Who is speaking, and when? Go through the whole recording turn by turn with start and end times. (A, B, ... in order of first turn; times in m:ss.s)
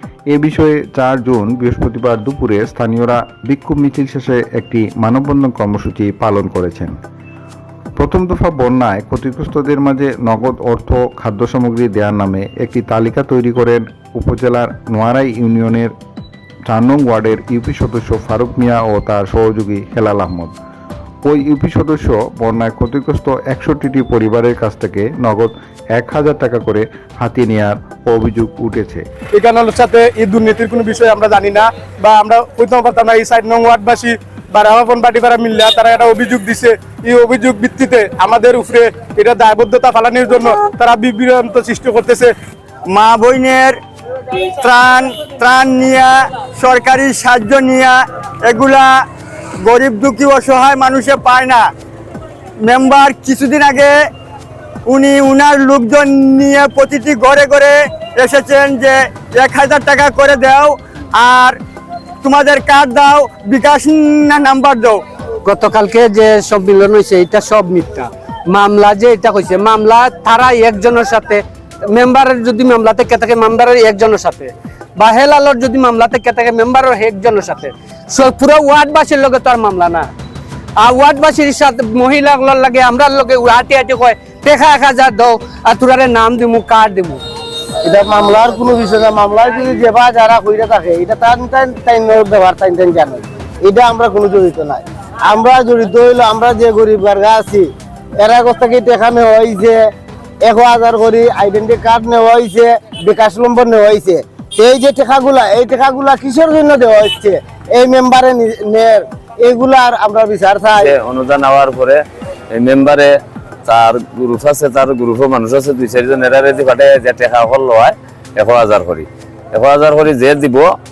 0:00.3-0:06.9 A
0:08.0-0:15.9 A
0:16.7-0:20.6 A
0:21.2-0:29.0 A
0:29.3-0:42.3 B
0:42.9-0:43.8 C
0:44.6-0:49.0 C
0:49.6-0:51.7 C
0:52.6-0:54.0 C
0:54.9-1:01.6 C
1:02.2-1:05.0 C
1:05.4-1:20.1 D
1:20.8-1:27.2 D
1:27.8-1:39.9 E
1:40.4-1:50.9 E
1:50.8-1:52.0 F
1:52.5-1:53.1 F
1:53.7-2:00.7 F